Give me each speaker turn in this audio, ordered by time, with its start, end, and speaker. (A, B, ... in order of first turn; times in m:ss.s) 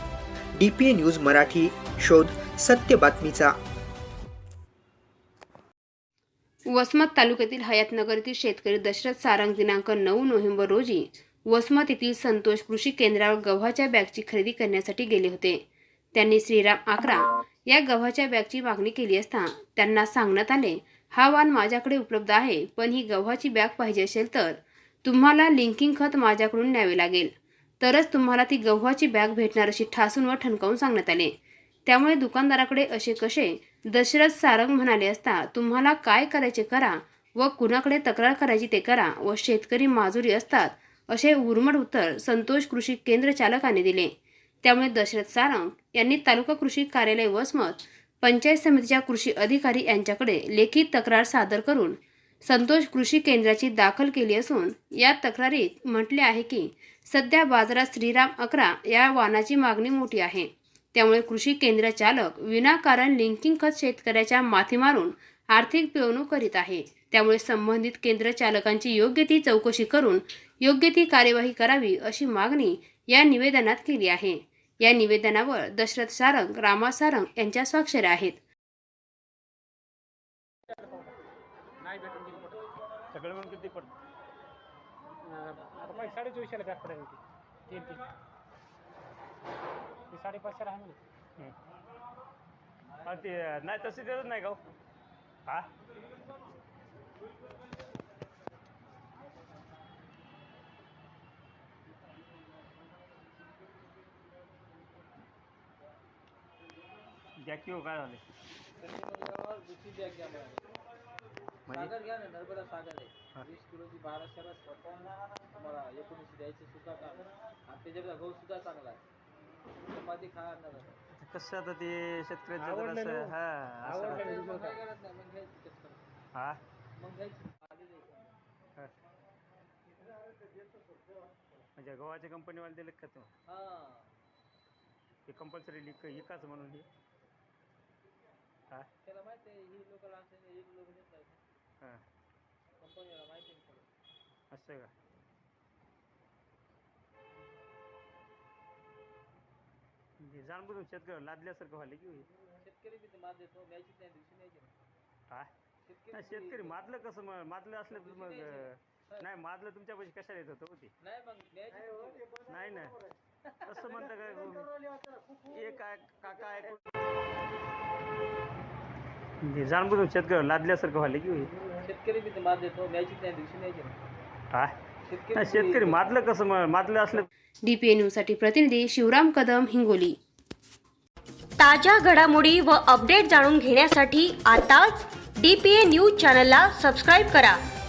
0:00.6-0:03.6 A
0:06.7-0:15.6 B
0:16.1-0:31.3 B
0:31.8-0:44.1 B
0:44.6-1:18.4 B
1:20.7-1:21.1 C
1:21.8-1:22.6 C
1:23.1-1:23.9 D
1:25.2-1:28.0 C
1:30.1-1:31.0 C
1:33.0-1:34.6 D
1:47.4-1:48.2 D
1:48.8-1:50.6 E
1:51.7-1:51.9 D
1:51.7-1:59.0 E
1:59.9-2:01.0 E
2:01.2-2:04.3 D
2:02.6-2:04.8 C
2:04.0-2:06.1 E
2:06.3-2:06.6 D
2:07.0-2:08.3 E
2:11.8-2:13.3 D
2:13.5-2:14.1 E
2:15.2-2:16.9 D
2:19.0-2:21.4 E
2:22.8-2:23.9 E
2:24.5-2:24.9 D
2:30.2-2:32.3 D
2:32.6-2:34.7 E
2:35.8-2:36.8 E
2:36.1-2:40.9 D
2:37.9-2:39.2 E
2:41.0-2:42.4 E
2:42.4-2:43.0 D
2:43.6-2:44.7 D
2:45.5-2:46.8 D
2:49.4-2:51.5 D
2:51.4-2:54.0 E
2:55.0-2:56.2 E
2:55.3-2:57.3 D
2:57.6-3:00.2 B
3:01.6-3:07.6 F